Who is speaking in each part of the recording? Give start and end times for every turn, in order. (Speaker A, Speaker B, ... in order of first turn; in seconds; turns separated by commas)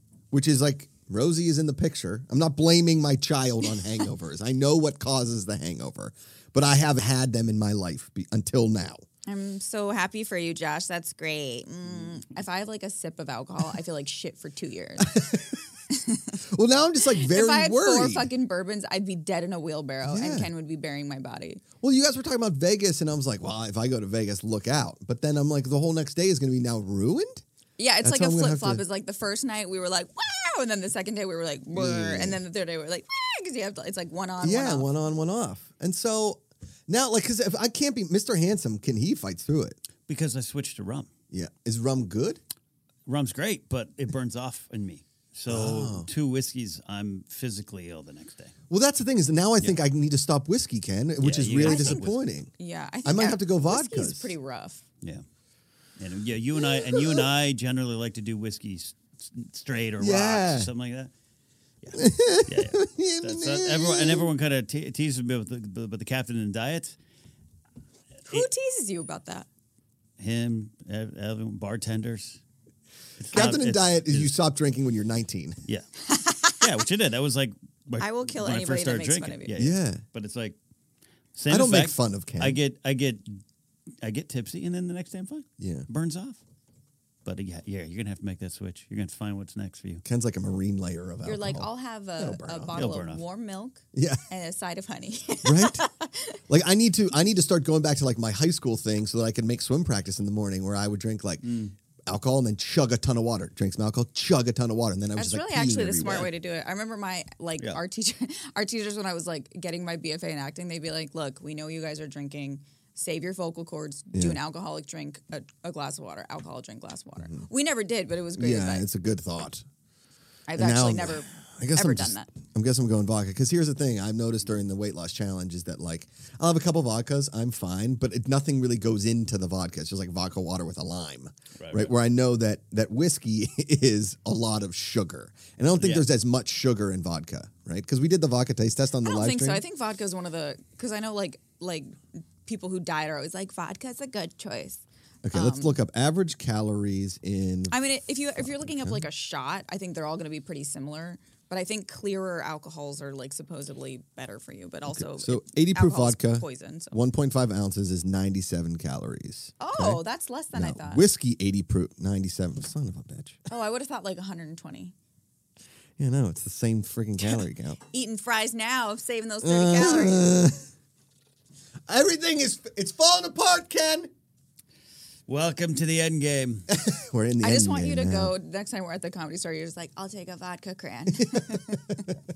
Speaker A: 0.3-9.0, Speaker B: 9.3-15.2, Speaker A: 15.0-15.6, Speaker B: 15.9-16.4, Speaker A: 16.5-18.3, Speaker B: 17.1-21.6, Speaker A: 20.1-20.5, Speaker A: 21.8-27.4, Speaker B: 27.8-34.9, Speaker A: 28.0-28.8, Speaker A: 31.7-32.4, Speaker A: 34.4-39.8, Speaker C: 40.1-41.1, Speaker A: 41.3-42.4, Speaker C: 43.1-48.5, Speaker A: 45.5-46.1, Speaker A: 48.7-52.5, Speaker C: 51.2-52.2, Speaker B: 51.6-54.8, Speaker A: 53.0-54.3, Speaker C: 56.0-61.1, Speaker A: 56.7-57.2, Speaker A: 60.0-60.7, Speaker C: 61.8-67.0, Speaker A: 61.9-64.3, Speaker B: 68.3-69.5, Speaker C: 70.2-72.4, Speaker C: 73.2-74.3, Speaker A: 73.3-75.6, Speaker B: 76.1-76.6, Speaker C: 76.5-80.6, Speaker B: 78.0-79.6, Speaker A: 79.5-80.0, Speaker C: 81.3-83.4, Speaker A: 81.5-82.6, Speaker C: 84.0-86.4, Speaker A: 85.6-85.9, Speaker C: 87.2-90.0, Speaker A: 90.0-92.9, Speaker B: 91.2-96.4, Speaker C: 92.8-93.2, Speaker A: 93.9-94.2, Speaker A: 95.4-95.8, Speaker A: 96.5-101.5, Speaker C: 101.4-101.7, Speaker A: 102.1-106.3, Speaker B: 105.2-118.9, Speaker A: 114.1-114.4, Speaker A: 117.2-117.5, Speaker A: 118.4-119.7, Speaker B: 120.5-122.3, Speaker A: 120.6-139.6, Speaker C: 131.6-131.9, Speaker C: 135.8-136.1, Speaker B: 139.0-145.8, Speaker A: 145.2-147.7, Speaker B: 147.7-157.0, Speaker A: 148.4-149.0, Speaker A: 154.9-160.0, Speaker B: 159.6-161.1, Speaker A: 160.5-163.4, Speaker B: 163.5-164.9, Speaker A: 166.0-167.8, Speaker B: 167.9-170.3, Speaker A: 169.4-170.7, Speaker A: 171.9-174.1, Speaker C: 175.3-176.7, Speaker A: 176.7-178.3, Speaker B: 177.4-182.0, Speaker A: 181.2-182.2